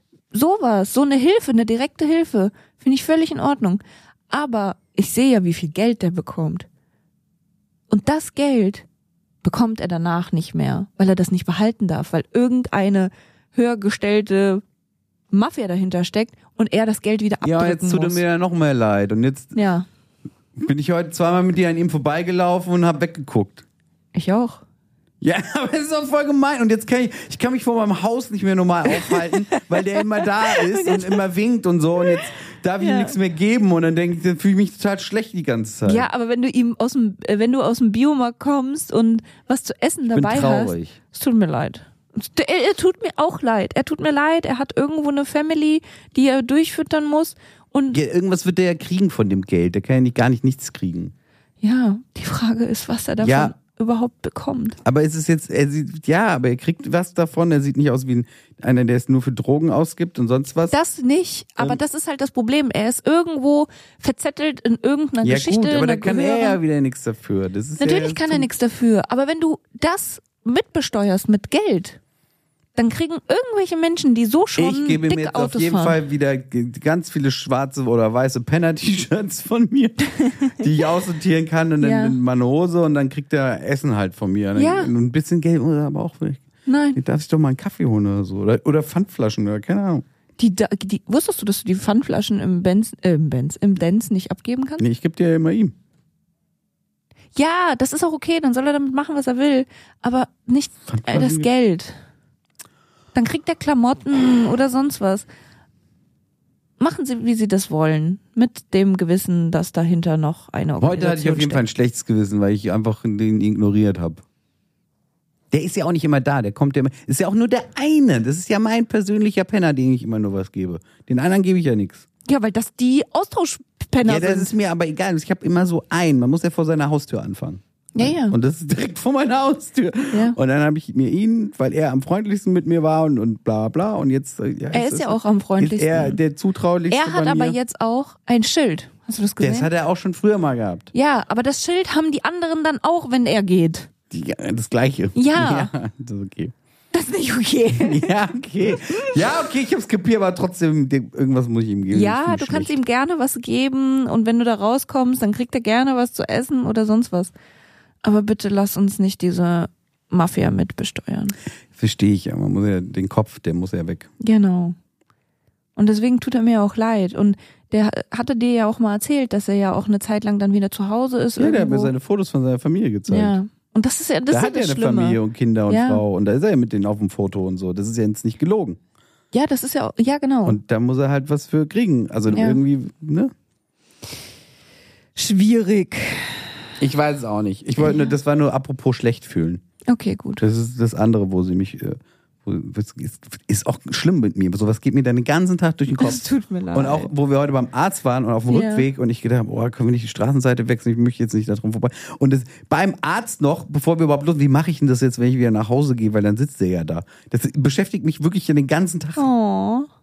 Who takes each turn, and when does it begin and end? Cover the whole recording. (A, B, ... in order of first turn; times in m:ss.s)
0:00.3-0:06.7 A
0:07.9-0:08.8 A
0:09.4-0:14.6 A
0:15.3-0:18.2 A
0:17.4-0:19.6 B
0:19.5-0:19.9 A
0:20.6-0:23.6 B
0:24.1-0:24.6 A
0:25.2-0:36.1 B
0:28.9-0:31.2 A
0:32.8-0:33.2 A
0:35.8-0:48.0 A
0:40.1-0:41.0 B
0:47.9-0:51.1 B
0:51.6-0:54.8 A
0:53.2-0:53.6 B
0:54.8-1:00.8 B
1:00.7-1:06.6 A
1:05.2-1:08.5 B
1:07.8-1:12.0 A
1:12.7-1:16.0 A
1:14.6-1:30.0 B
1:21.8-1:22.2 A
1:24.6-1:24.9 A
1:26.6-1:27.0 A
1:30.4-1:34.8 A
1:34.8-1:35.7 B
1:37.3-1:42.0 A
1:40.9-1:41.5 B
1:43.1-1:45.2 A
1:46.8-1:51.6 A
1:50.8-1:54.2 B
1:55.5-2:02.0 B
2:02.2-2:04.5 A
2:04.0-2:17.6 B
2:07.9-2:08.3 A
2:10.1-2:10.4 A
2:14.7-2:16.2 A
2:16.9-2:19.7 A
2:19.4-2:20.9 B
2:20.9-2:23.9 A
2:24.1-2:26.5 B
2:25.1-2:25.7 A
2:26.9-2:28.1 A
2:27.7-2:32.7 B
2:28.7-2:29.3 A
2:31.9-2:37.3 A
2:38.0-2:41.3 A
2:41.7-2:44.1 B
2:44.2-2:44.8 A
2:45.8-2:51.9 A
2:51.4-2:53.4 B
2:53.1-2:56.0 A
2:54.3-2:58.8 B
2:59.3-3:00.6 A
3:00.4-3:03.3 B
3:02.3-3:02.6 A
3:05.2-3:06.6 A
3:06.8-3:09.6 B
3:07.8-3:08.1 A
3:09.9-3:10.4 A
3:10.4-3:29.3 B
3:15.9-3:17.1 A
3:18.5-3:18.9 A
3:29.2-3:29.9 A